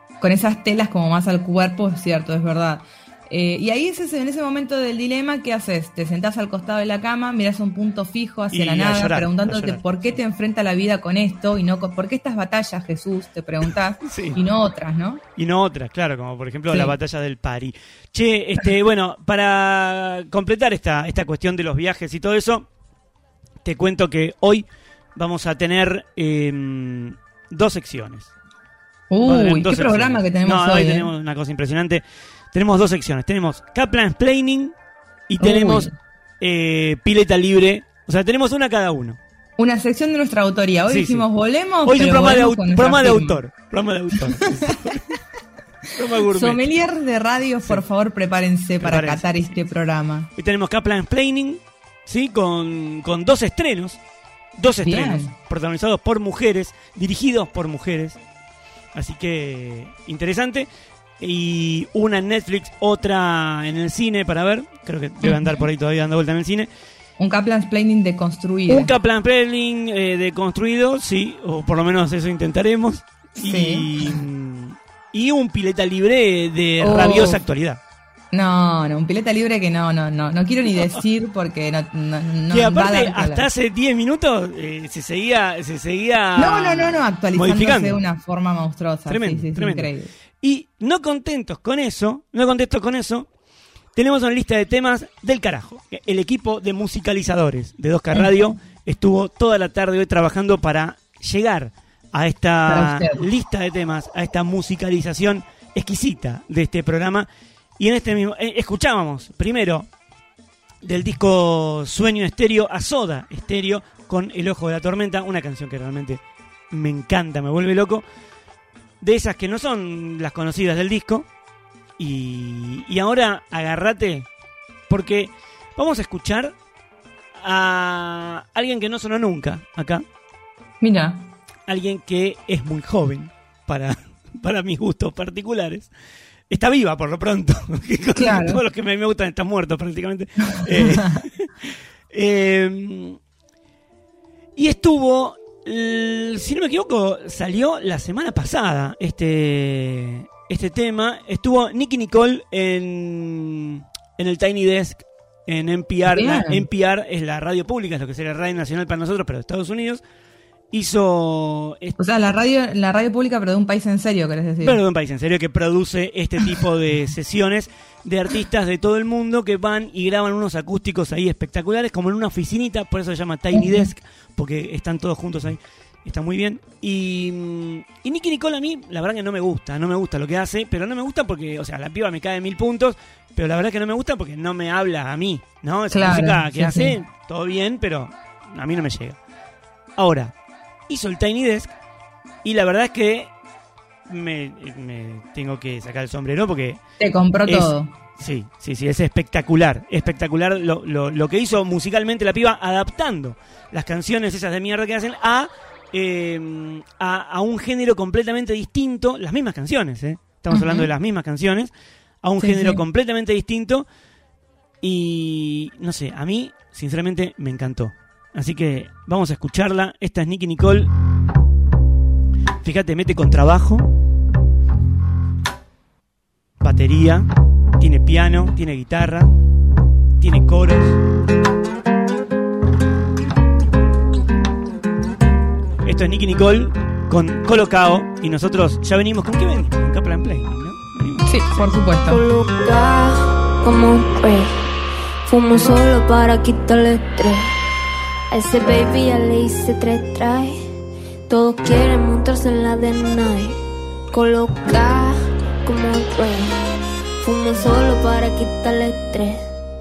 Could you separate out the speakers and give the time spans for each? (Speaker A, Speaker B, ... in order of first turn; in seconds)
Speaker A: 0.2-15.2, 16.7-16.9, 29.1-31.1, 35.4-35.9, 39.6-43.4, 44.2-45.1, 46.2-50.3, 54.8-55.3, 65.2-65.6, 67.2-68.9, 73.4-73.9, 76.8-77.4, 78.3-83.5, 86.4-90.1, 102.7-103.3, 130.8-131.3, 138.2-138.6, 156.1-156.7, 162.0-164.8, 173.5-173.9, 185.9-187.0, 197.0-197.9, 210.5-210.9, 212.4-212.8, 241.2-242.2
Speaker B: 8.5-10.1, 14.0-14.4, 15.4-22.7, 23.6-28.3, 29.2-34.7, 35.3-39.2, 40.9-41.3, 41.8-45.1, 46.0-46.6, 48.8-49.5, 50.4-54.0, 54.6-58.2, 58.9-60.7, 61.2-66.7, 68.7-77.8, 80.7-81.0, 82.5-88.0, 89.1-89.9, 90.4-93.3, 94.0-107.3, 107.8-109.9, 110.8-118.0, 119.0-121.3, 122.0-124.3, 124.9-126.5, 127.4-130.1, 131.7-135.9, 136.5-143.2, 144.6-160.0, 160.7-162.0, 164.6-189.2, 190.0-190.3, 190.9-191.7, 192.4-193.3, 194.1-196.8, 197.5-211.7, 212.2-213.9, 214.8-220.9, 222.6-223.9, 226.6-229.3, 230.2-231.0, 235.8-241.8
Speaker C: 242.0-244.6, 245.2-247.5, 248.3-250.6, 251.3-253.6, 254.1-256.6, 257.2-259.4